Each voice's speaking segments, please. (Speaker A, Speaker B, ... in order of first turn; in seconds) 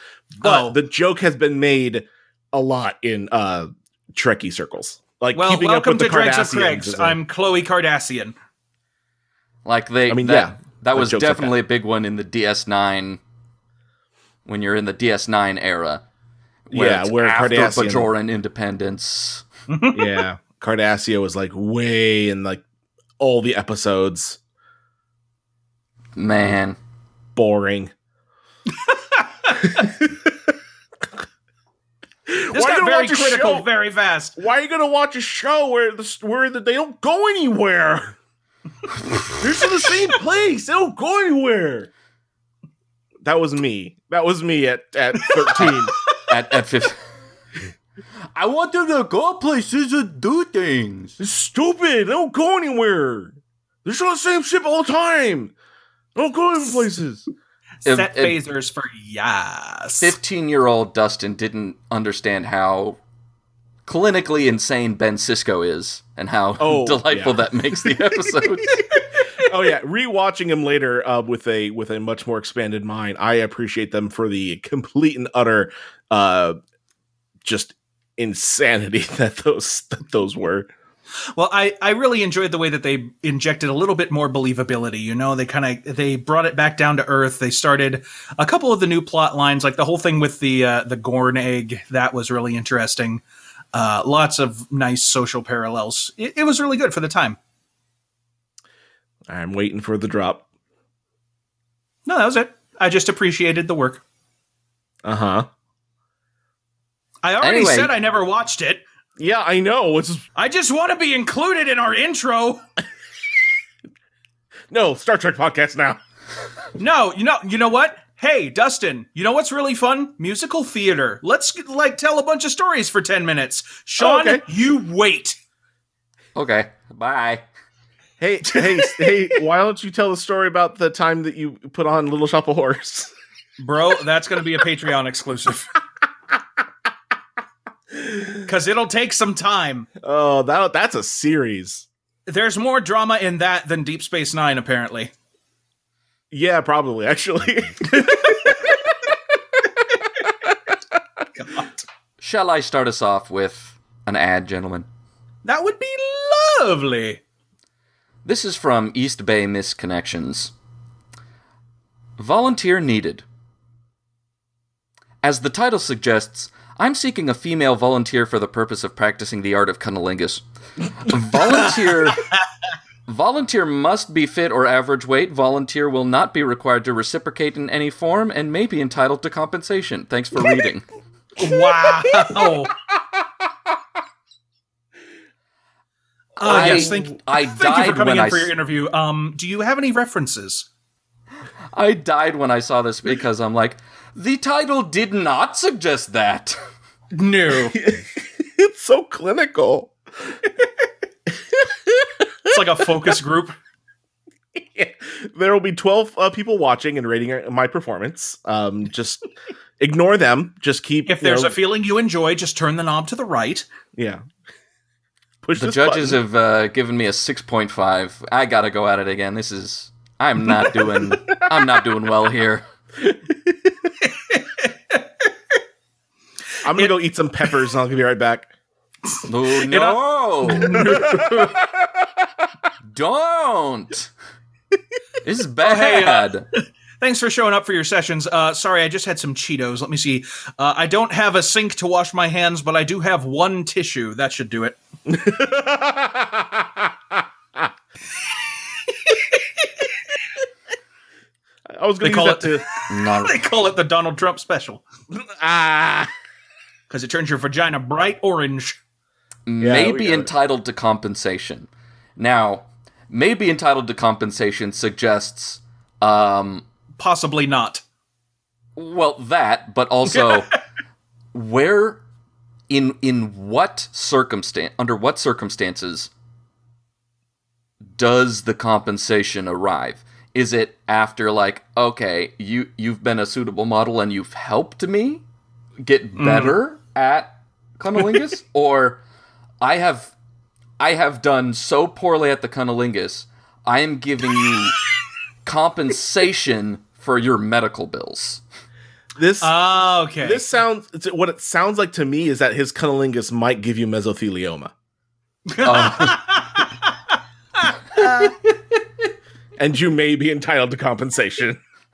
Speaker A: 0.3-7.2, 10.1-11.5, 16.7-18.1, 19.9-22.6, 23.2-24.4, 27.3-27.9, 29.6-30.5, 32.3-33.7, 34.4-38.1, 39.4-41.9, 43.2-45.9, 51.2-55.5, 56.1-57.3, 66.6-68.4, 69.4-76.6, 77.4-80.7, 99.3-100.4, 105.0-105.5, 109.2-110.3, 114.7-116.0, 124.0-124.4, 128.2-133.1, 137.9-138.4, 140.0-141.8, 146.3-149.1, 150.0-150.5, 186.4-187.0, 197.7-200.3, 201.4-202.6, 204.5-209.2, 209.8-211.6, 213.9-214.2, 215.4-216.2, 220.6-221.4, 223.0-223.6, 226.6-228.5, 230.7-232.2, 245.1-247.7, 251.7-252.6, 255.1-256.1, 259.6-260.3, 299.2-299.5, 300.2-304.7, 309.6-311.6
Speaker B: 0.4-0.8, 5.3-8.3, 19.7-20.2, 28.8-29.8, 32.5-34.4, 45.2-46.3, 57.8-60.1, 81.3-93.2, 93.7-97.4, 102.0-104.0, 107.2-108.8, 110.3-112.6, 116.8-125.4, 128.5-129.1, 133.6-135.7, 138.4-139.9, 142.3-145.1, 147.9-148.7, 151.3-151.8, 155.4-157.2, 172.1-172.3, 181.4-182.7, 186.4-190.7, 197.1-197.8, 202.5-203.6, 211.1-213.7, 224.0-225.0, 229.6-231.5, 235.6-236.3, 237.0-244.8, 248.9-249.8, 252.0-254.8, 256.9-258.8, 267.0-267.8, 270.2-270.6, 286.2-286.6, 299.4-300.4, 305.5-308.3
Speaker C: 9.6-13.2, 14.4-16.0, 16.7-19.4, 26.1-26.8, 46.3-47.0, 48.3-51.1, 57.8-58.4, 60.0-63.0, 63.9-68.8, 107.4-107.9, 126.3-127.4, 152.2-154.8, 158.2-160.5, 162.2-163.2, 165.2-170.4, 170.9-172.2, 173.1-180.8, 186.4-188.5, 191.7-196.6, 215.5-222.6, 229.2-231.0, 232.9-234.1, 235.2-236.5, 252.9-253.4, 259.4-266.6, 268.8-270.5, 271.3-272.0, 272.7-276.1, 278.0-285.2, 285.8-289.0, 289.6-290.1, 290.8-294.8, 295.4-298.4, 305.6-306.2